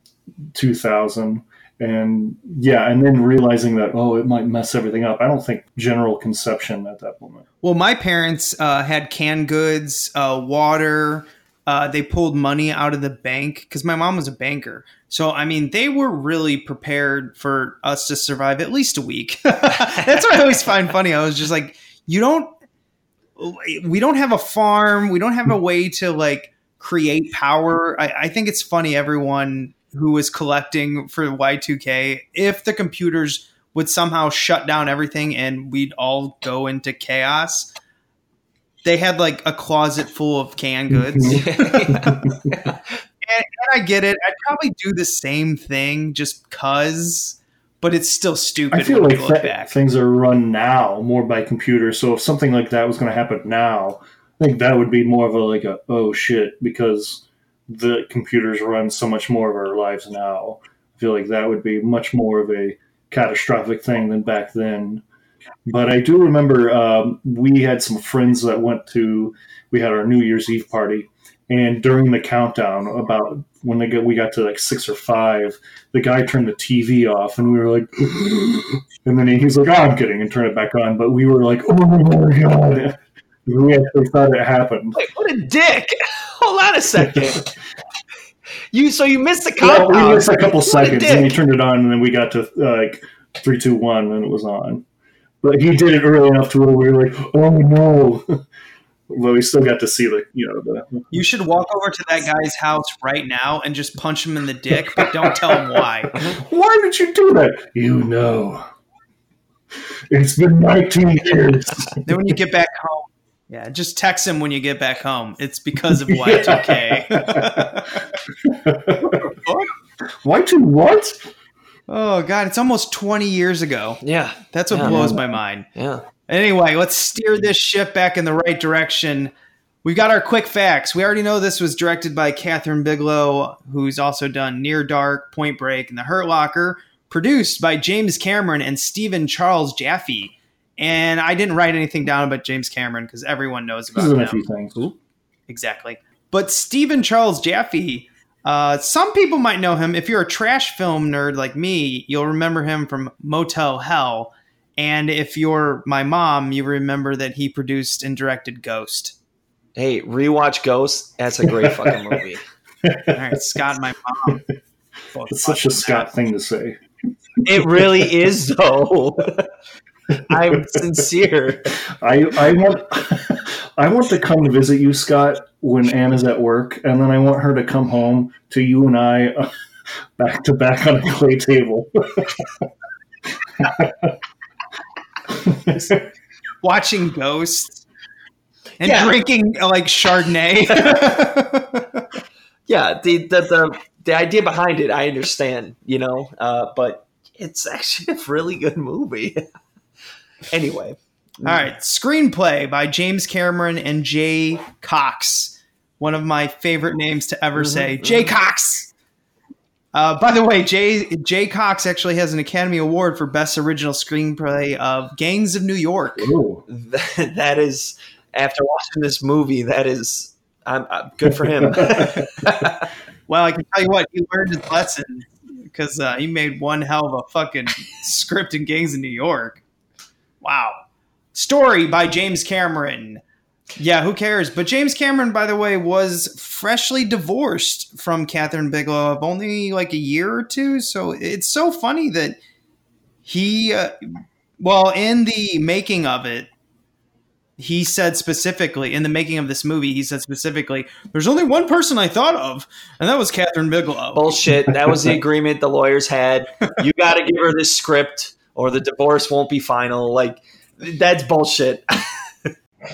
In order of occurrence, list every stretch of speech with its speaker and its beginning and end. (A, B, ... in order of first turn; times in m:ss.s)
0:00.5-0:07.4 A
0:07.6-0:22.5 B
0:23.4-0:37.7 B
0:38.8-0:41.7 B
0:40.9-0:42.5 A
0:41.3-0:42.8 C
0:43.2-0:49.7 B
0:48.7-1:05.0 A
1:05.7-1:25.0 A
1:25.0-1:27.5 C
1:28.7-1:31.4 C
1:29.6-1:34.8 A
1:35.4-1:38.4 A
1:39.1-1:41.0 A
1:41.1-1:46.1 B
1:45.0-1:45.8 A
1:46.4-1:48.7 A
1:50.1-1:52.1 A
1:52.1-1:57.9 B
1:56.1-1:57.9 A
1:58.4-1:59.2 A
1:59.0-1:59.7 B
2:00.2-2:01.2 A
2:01.9-2:04.0 B
2:04.0-2:05.0 C
2:04.5-2:05.7 B
2:04.8-2:05.2 A
2:05.8-2:06.0 C
2:06.3-2:24.5 B
2:24.0-2:24.8 A
2:25.5-2:39.2 B
2:39.8-2:42.4 C
2:41.4-2:42.2 A
2:42.8-2:43.4 A
2:43.1-2:44.4 B
2:45.1-2:46.1 B
2:45.3-2:46.8 A
2:47.4-2:49.5 C
2:50.3-2:51.7 C
2:51.9-2:59.5 A
3:00.2-3:02.7 A
3:03.6-3:04.1 A
3:05.3-3:06.0 A
3:06.6-3:07.8 B
3:08.8-3:12.0 B
3:08.8-3:09.1 C
3:10.7-3:11.0 C
3:12.7-3:19.4 C
3:20.5-3:21.7 C
3:21.4-3:28.9 B
3:27.6-3:28.3 C
3:29.9-3:36.3 B
3:36.2-3:36.6 A
3:36.7-3:42.9 C
3:41.6-3:42.3 A
3:43.3-3:49.6 B
3:50.4-3:50.8 B
3:51.3-3:53.2 B
3:53.8-4:02.4 B
4:03.3-4:06.5 B
4:07.6-4:14.3 B
4:14.2-4:22.5 C